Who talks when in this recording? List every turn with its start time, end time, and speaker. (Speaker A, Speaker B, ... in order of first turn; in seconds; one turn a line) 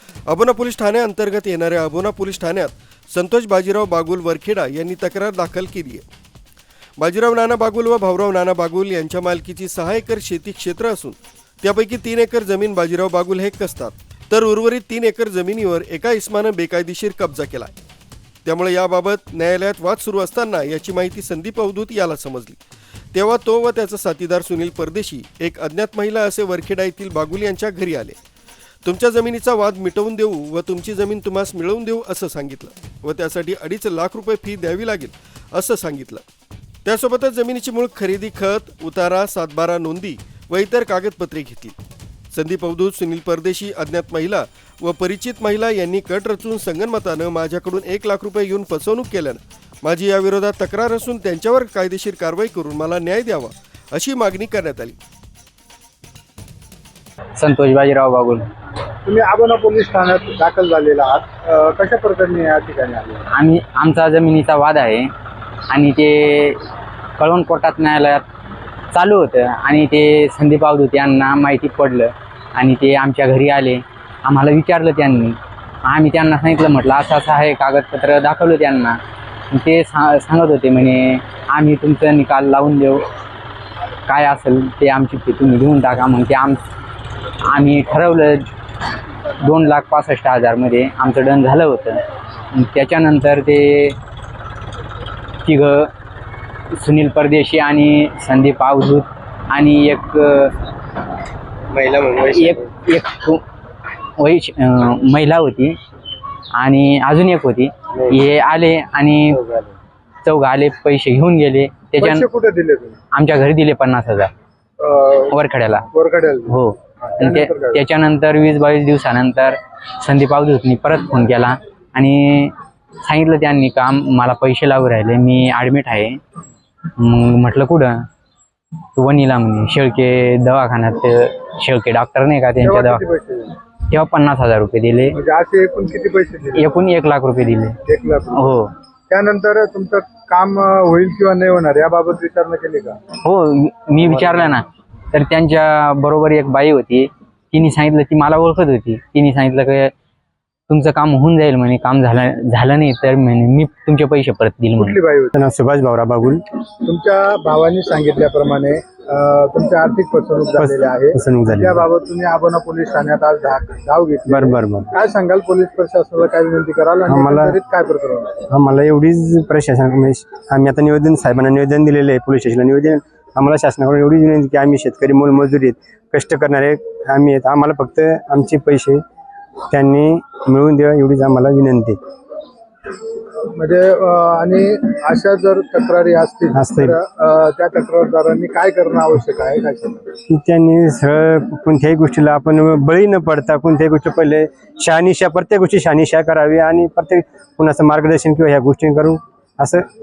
Speaker A: 0.3-6.1
Speaker A: 7.0-17.7
Speaker A: 18.4-22.6
Speaker A: 23.1-28.2
Speaker A: 28.8-36.2
Speaker A: 36.8-41.8
Speaker A: 42.3-55.0
Speaker B: 57.4-58.5
Speaker C: 59.0-63.3
Speaker B: 63.3-65.1
Speaker B: 65.7-66.6
Speaker B: 67.2-68.2
Speaker B: 68.9-79.0
Speaker B: 79.5-83.0
Speaker B: 84.0-86.6
Speaker B: 87.4-88.5
Speaker B: 89.4-94.0
Speaker B: 95.4-95.9
Speaker B: 96.7-100.5
Speaker B: 102.1-103.4
Speaker B: 104.2-105.8
Speaker B: 106.5-109.4
Speaker B: 110.2-112.2
Speaker C: 112.0-113.0
Speaker B: 113.1-114.3
Speaker C: 114.8-115.4
Speaker B: 115.3-115.9
Speaker C: 115.9-117.8
Speaker B: 116.5-126.2
Speaker B: 127.0-128.0
Speaker B: 128.9-133.0
Speaker C: 132.6-133.6
Speaker B: 133.9-135.2
Speaker C: 135.1-136.8
Speaker B: 136.5-137.8
Speaker C: 137.8-138.5
Speaker B: 138.3-138.7
Speaker C: 139.1-143.0
Speaker B: 143.2-149.9
Speaker C: 144.0-144.5
Speaker B: 150.7-154.9
Speaker C: 154.8-155.3
Speaker D: 155.3-156.4
Speaker C: 156.8-168.4
Speaker D: 160.6-161.8
Speaker D: 164.3-164.9
Speaker D: 167.1-167.6
Speaker D: 168.5-179.0
Speaker D: 179.7-182.0
Speaker C: 183.4-190.1
Speaker D: 186.5-186.9
Speaker D: 190.3-199.8